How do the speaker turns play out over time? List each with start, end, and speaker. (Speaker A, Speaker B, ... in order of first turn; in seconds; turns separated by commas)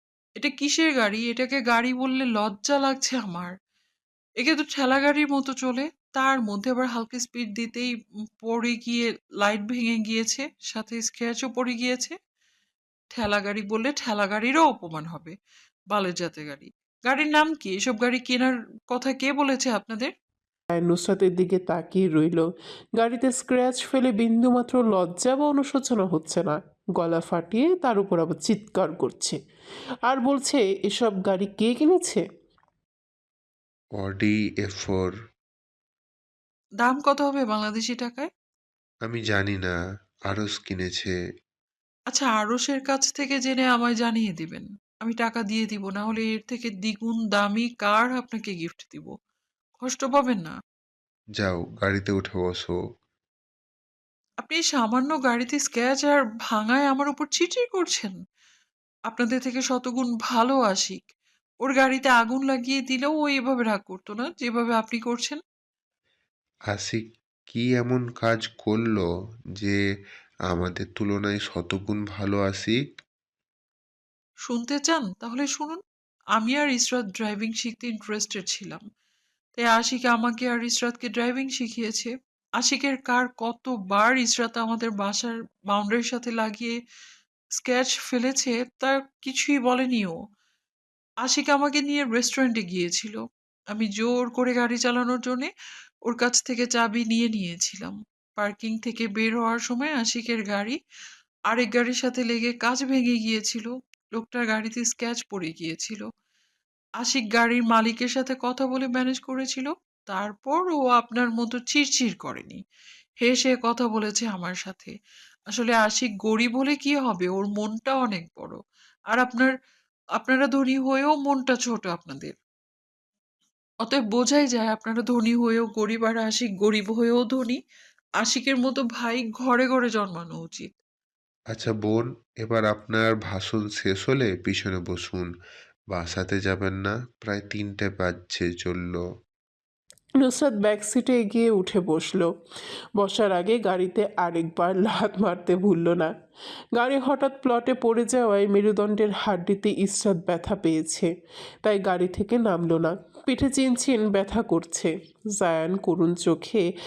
Speaker A: 0.4-3.5, Speaker A: 4.4-7.9, Speaker A: 8.4-12.2, Speaker A: 13.1-15.3, Speaker A: 15.9-20.1, Speaker B: 20.7-22.5, Speaker B: 23.0-29.4, Speaker B: 30.1-32.2, Speaker C: 34.0-35.1, Speaker A: 36.8-38.3, Speaker C: 39.0-39.8, Speaker C: 40.3-41.2, Speaker A: 42.1-49.1, Speaker A: 49.8-50.5, Speaker C: 51.4-52.8, Speaker A: 54.4-58.2, Speaker A: 59.1-61.0, Speaker A: 61.6-65.4, Speaker C: 66.7-69.8, Speaker C: 70.5-72.8, Speaker A: 74.5-75.8, Speaker A: 76.4-78.8, Speaker A: 79.6-86.8, Speaker A: 87.6-90.2, Speaker A: 91.2-93.2, Speaker A: 93.7-95.5, Speaker A: 96.1-100.8, Speaker A: 101.5-106.1, Speaker A: 107.0-112.6, Speaker A: 113.2-114.9, Speaker A: 115.5-118.6, Speaker A: 119.1-119.5, Speaker A: 120.2-122.4, Speaker A: 123.8-127.6, Speaker A: 128.2-130.7, Speaker C: 131.5-135.3, Speaker C: 135.9-139.0, Speaker B: 140.2-142.3, Speaker B: 143.0-146.1, Speaker B: 146.8-151.1, Speaker B: 151.6-156.6